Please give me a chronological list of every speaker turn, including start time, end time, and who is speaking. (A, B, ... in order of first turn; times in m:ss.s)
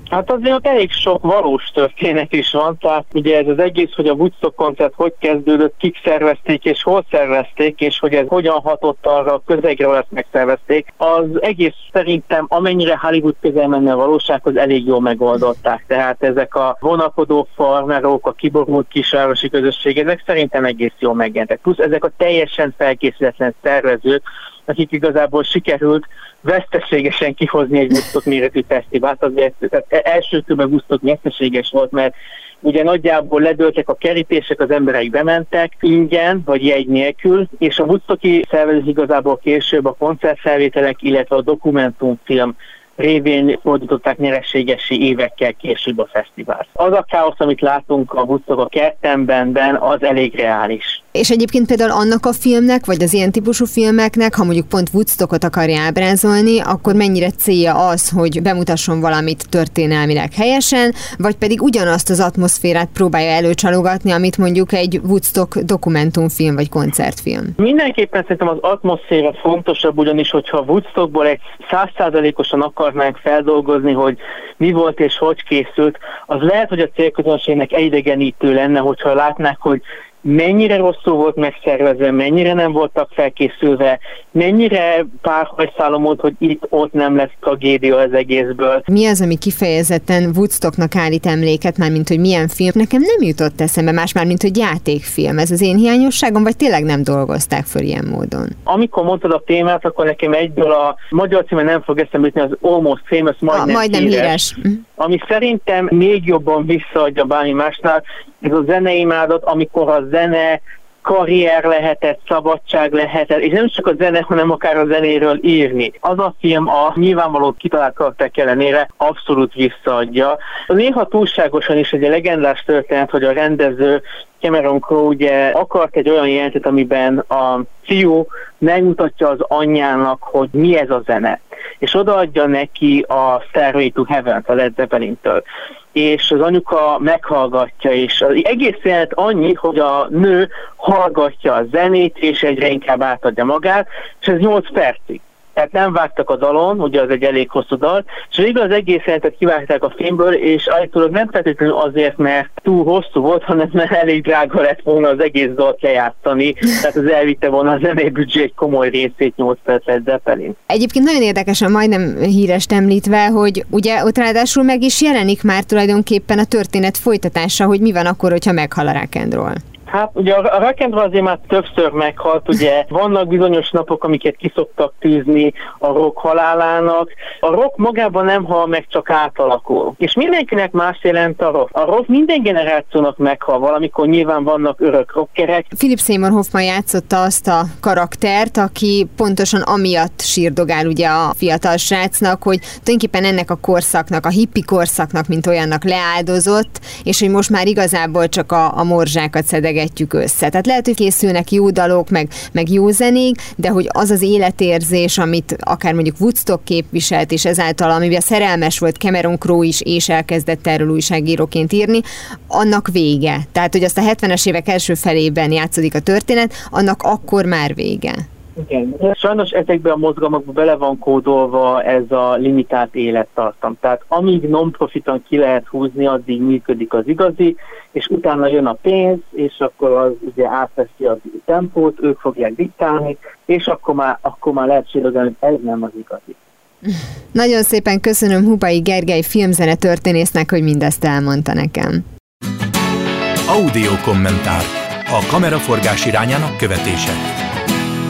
0:00.1-0:51.0 A
0:51.2-1:07.5 B
1:07.6-1:28.8 A
1:28.9-1:38.6 B
1:38.7-1:44.4 A
1:43.5-1:44.8 B
1:45.0-2:15.4 A
2:15.9-2:40.6 A
2:40.7-2:49.6 B
2:49.9-3:05.7 A
3:05.7-3:38.2 B
3:38.6-3:56.4 A
3:56.9-4:02.0 B
4:03.5-4:07.2 C